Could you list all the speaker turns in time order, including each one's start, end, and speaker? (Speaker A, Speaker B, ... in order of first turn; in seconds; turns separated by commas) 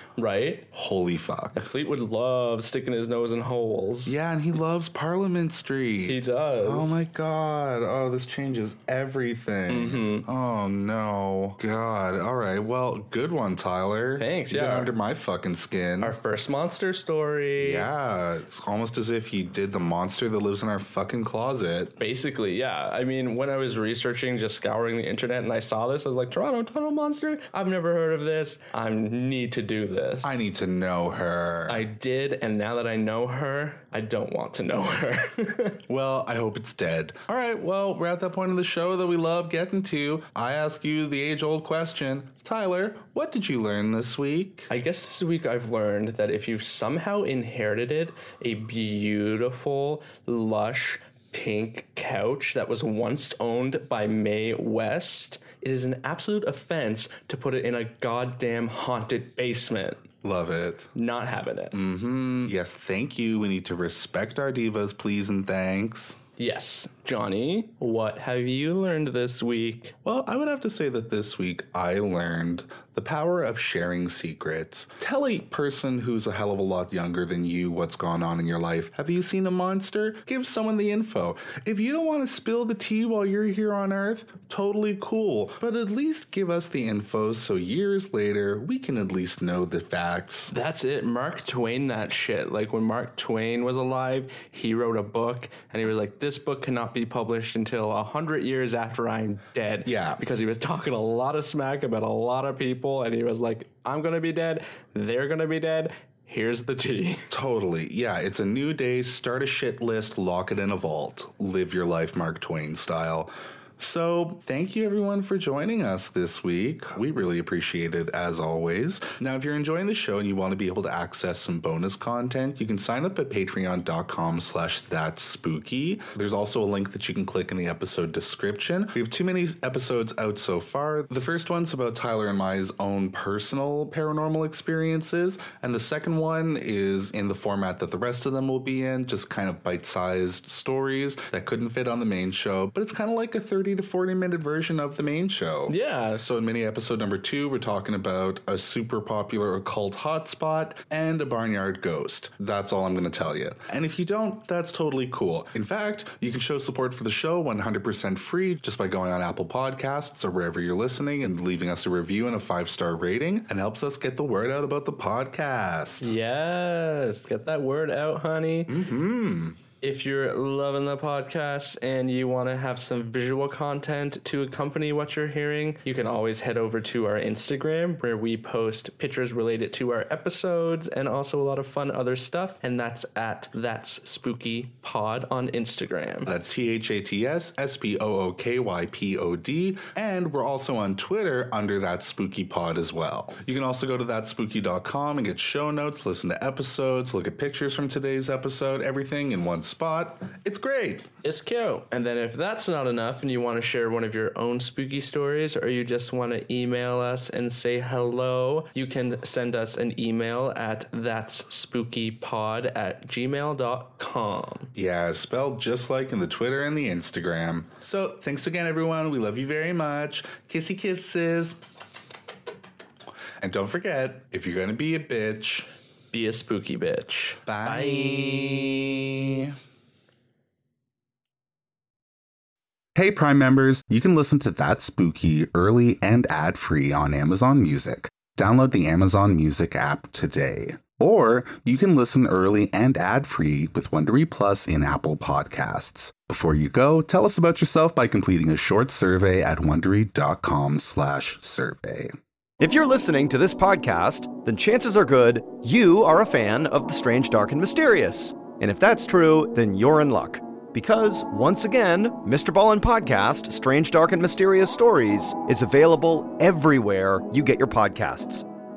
Speaker A: 0.2-0.7, Speaker B: 0.7-1.7, Speaker A: 1.6-4.2, Speaker B: 4.1-16.1, Speaker A: 6.0-7.0, Speaker A: 9.7-10.3, Speaker A: 14.2-14.9, Speaker A: 16.0-17.9, Speaker B: 17.6-21.9, Speaker A: 22.0-30.5, Speaker B: 30.2-31.8, Speaker A: 31.7-35.8, Speaker B: 35.9-44.7, Speaker A: 44.7-60.0, Speaker B: 60.2-60.9, Speaker A: 61.0-61.8, Speaker B: 61.7-66.2, Speaker A: 66.4-70.0, Speaker B: 70.0-90.5, Speaker A: 90.5-107.3, Speaker B: 99.9-100.2, Speaker B: 107.3-166.1, Speaker A: 145.7-146.2, Speaker A: 166.0-168.8, Speaker B: 168.7-169.6, Speaker A: 169.8-186.3, Speaker B: 186.2-201.1, Speaker A: 201.2-214.7, Speaker B: 214.7-221.6, Speaker B: 223.4-225.7, Speaker A: 226.1-228.8, Speaker B: 227.5-229.5, Speaker B: 233.0-252.2, Speaker C: 252.6-268.5